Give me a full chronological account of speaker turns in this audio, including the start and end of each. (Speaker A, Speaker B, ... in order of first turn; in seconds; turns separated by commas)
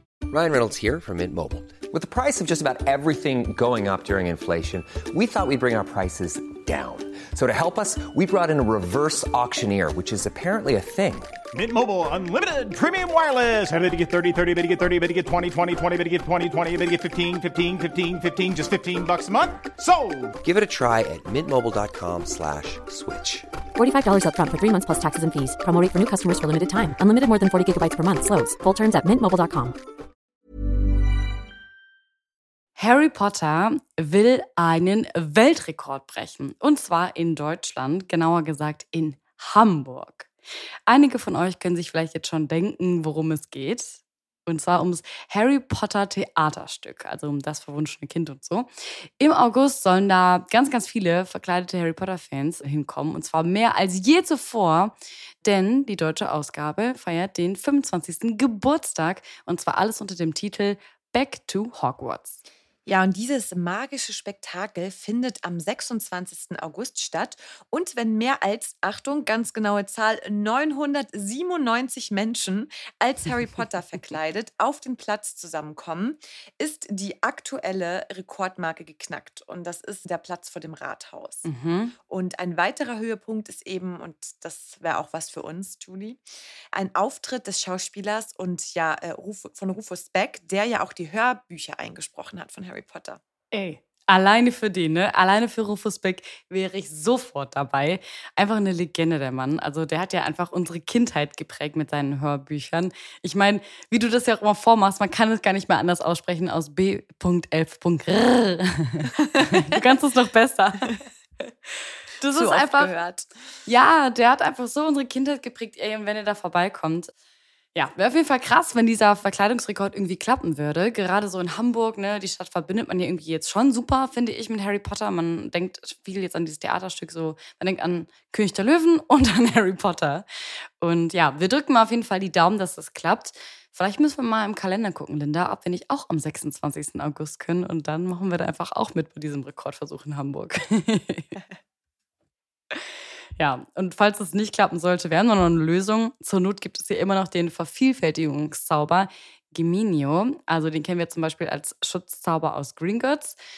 Speaker A: 0.3-11.3, Speaker B: 11.5-20.4, Speaker A: 20.4-23.5, Speaker C: 23.8-29.8, Speaker D: 32.8-40.3, Speaker D: 40.9-62.4, Speaker E: 62.9-81.5, Speaker D: 81.5-82.0, Speaker E: 82.1-86.2, Speaker E: 86.7-93.2, Speaker D: 93.5-111.0, Speaker E: 109.3-109.6, Speaker D: 111.7-112.9, Speaker E: 112.3-113.3, Speaker D: 113.7-117.1, Speaker D: 117.8-130.2, Speaker D: 130.8-141.3, Speaker D: 142.7-153.4